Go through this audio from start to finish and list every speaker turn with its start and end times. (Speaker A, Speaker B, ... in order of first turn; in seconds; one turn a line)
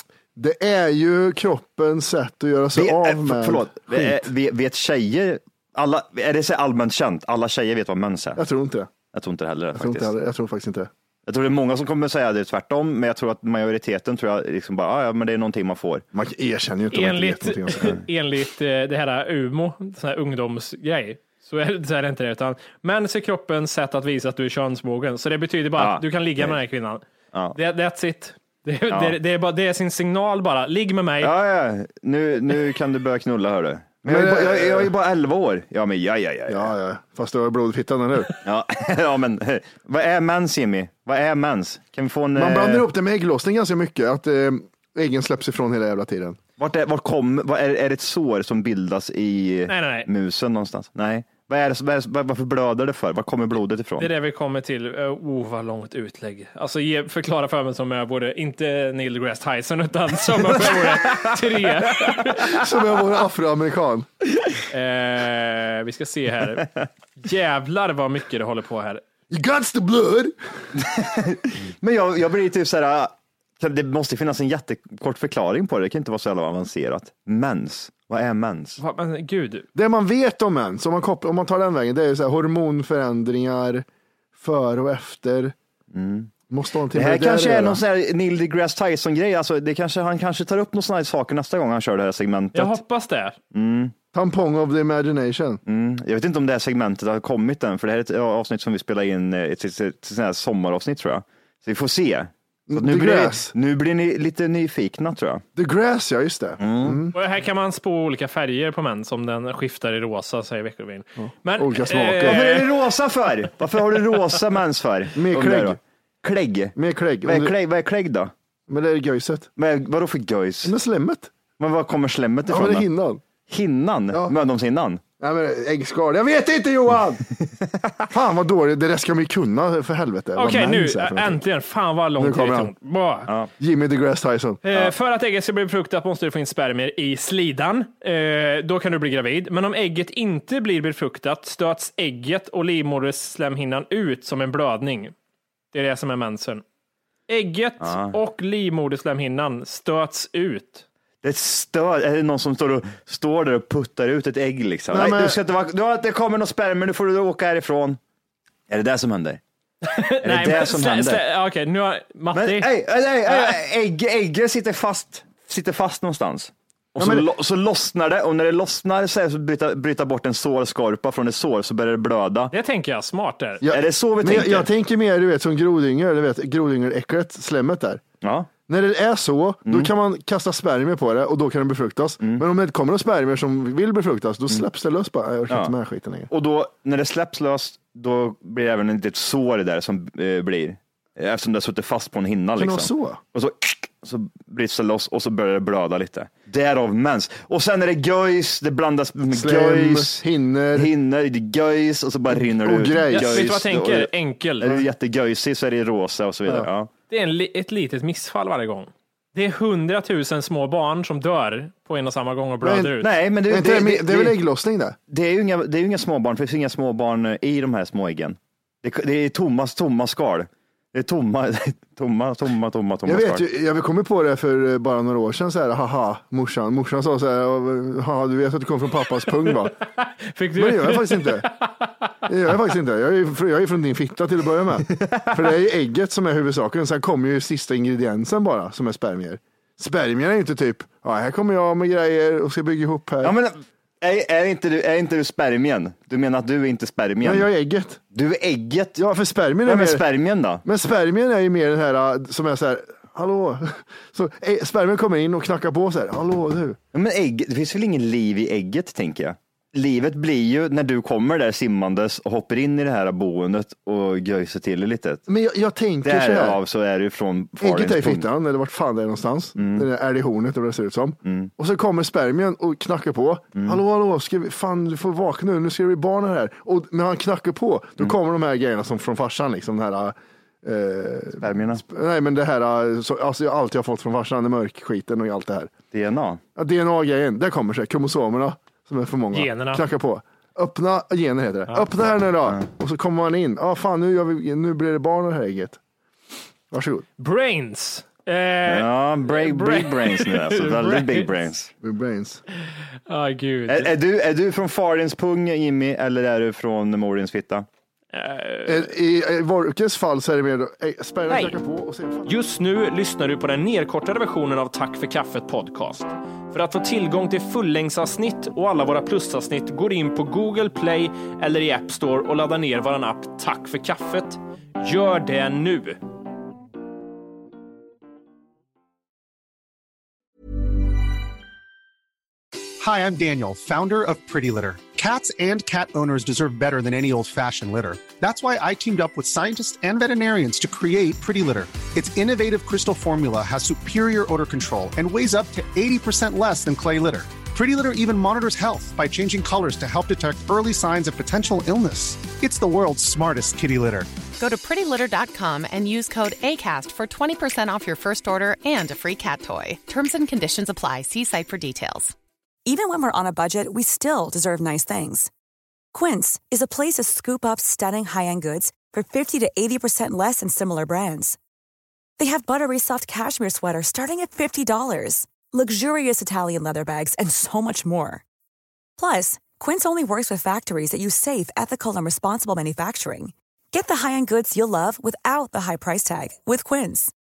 Speaker A: 0.3-4.2
Speaker B: 2.7-8.4
Speaker A: 8.3-8.9
Speaker B: 9.1-10.1
Speaker A: 9.7-10.9
Speaker B: 11.3-16.0
Speaker A: 16.1-18.0
Speaker C: 16.9-27.0
Speaker B: 25.8-26.6
Speaker C: 27.5-31.3
Speaker B: 28.9-29.1
Speaker B: 31.2-36.7
Speaker A: 34.0-34.9
Speaker A: 36.5-38.4
Speaker B: 38.4-42.9
Speaker A: 42.4-46.4
Speaker B: 46.6-54.1
Speaker C: 49.7-50.1
Speaker C: 54.0-62.6
Speaker B: 60.5-62.4
Speaker A: 62.5-64.1
Speaker C: 64.7-69.0
Speaker A: 69.3-70.3
Speaker B: 70.8-78.8
Speaker C: 78.8-79.7
Speaker A: 79.7-83.8
Speaker A: 84.4-85.5
Speaker B: 85.9-86.3
Speaker A: 86.5-87.8
Speaker B: 86.9-92.8
Speaker C: 92.5-93.4
Speaker B: 93.5-93.9
Speaker A: 94.1-95.6
Speaker B: 95.6-105.4
Speaker A: 102.7-103.5
Speaker A: 105.5-107.2
Speaker B: 106.6-107.0
Speaker C: 107.1-112.8
Speaker A: 111.2-112.4
Speaker B: 112.1-118.3
Speaker A: 115.1-115.8
Speaker A: 116.8-117.5
Speaker A: 118.7-119.5
Speaker B: 119.5-120.7
Speaker A: 120.6-121.3
Speaker B: 121.6-122.9
Speaker A: 122.5-123.2
Speaker B: 123.5-125.0
Speaker A: 125.2-127.2
Speaker A: 128.1-131.4
Speaker C: 130.3-133.3
Speaker A: 132.2-132.7
Speaker A: 133.6-134.6
Speaker C: 134.6-145.1
Speaker C: 145.7-146.6
Speaker C: 147.3-150.8
Speaker B: 147.8-148.1
Speaker B: 151.2-158.0
Speaker A: 154.9-155.4
Speaker B: 158.7-159.4
Speaker C: 159.8-162.7
Speaker B: 160.2-161.2
Speaker B: 162.3-172.5
Speaker C: 163.2-163.6
Speaker A: 167.0-167.2
Speaker C: 172.5-173.6
Speaker A: 173.6-178.0
Speaker B: 173.7-174.7
Speaker B: 178.2-178.5
Speaker A: 178.7-186.3
Speaker B: 179.7-179.9
Speaker B: 186.3-200.2
Speaker A: 192.6-193.2
Speaker A: 199.3-200.9
Speaker B: 200.7-206.9
Speaker A: 202.4-203.5
Speaker C: 203.1-204.8
Speaker C: 207.1-213.1
Speaker A: 212.6-212.9
Speaker B: 213.0-214.4
Speaker A: 213.5-215.0
Speaker B: 215.1-223.4
Speaker A: 223.1-229.7
Speaker C: 230.0-232.1
Speaker A: 230.5-231.5
Speaker A: 232.2-243.3
Speaker B: 243.2-247.5
Speaker A: 247.2-248.0
Speaker B: 248.1-249.0
Speaker A: 248.9-250.0
Speaker B: 249.6-250.6
Speaker A: 250.6-256.8
Speaker B: 256.9-265.3
Speaker A: 265.3-266.6
Speaker B: 266.0-268.2
Speaker A: 267.6-285.7
Speaker B: 269.6-269.9
Speaker B: 271.2-271.5
Speaker B: 273.6-273.8
Speaker B: 281.4-281.8
Speaker B: 285.9-286.4
Speaker A: 286.6-295.8
Speaker C: 289.3-289.8
Speaker A: 296.7-297.1
Speaker C: 297.2-301.3
Speaker B: 298.6-301.7
Speaker A: 301.8-302.4
Speaker C: 302.7-303.9
Speaker B: 303.7-307.6
Speaker C: 308.1-308.9
Speaker A: 308.6-312.3
Speaker C: 312.2-326.0
Speaker D: 332.8-354.1
Speaker E: 354.4-362.1
Speaker F: 362.6-365.3
Speaker F: 365.9-371.4
Speaker F: 372.2-378.2
Speaker F: 379.0-387.1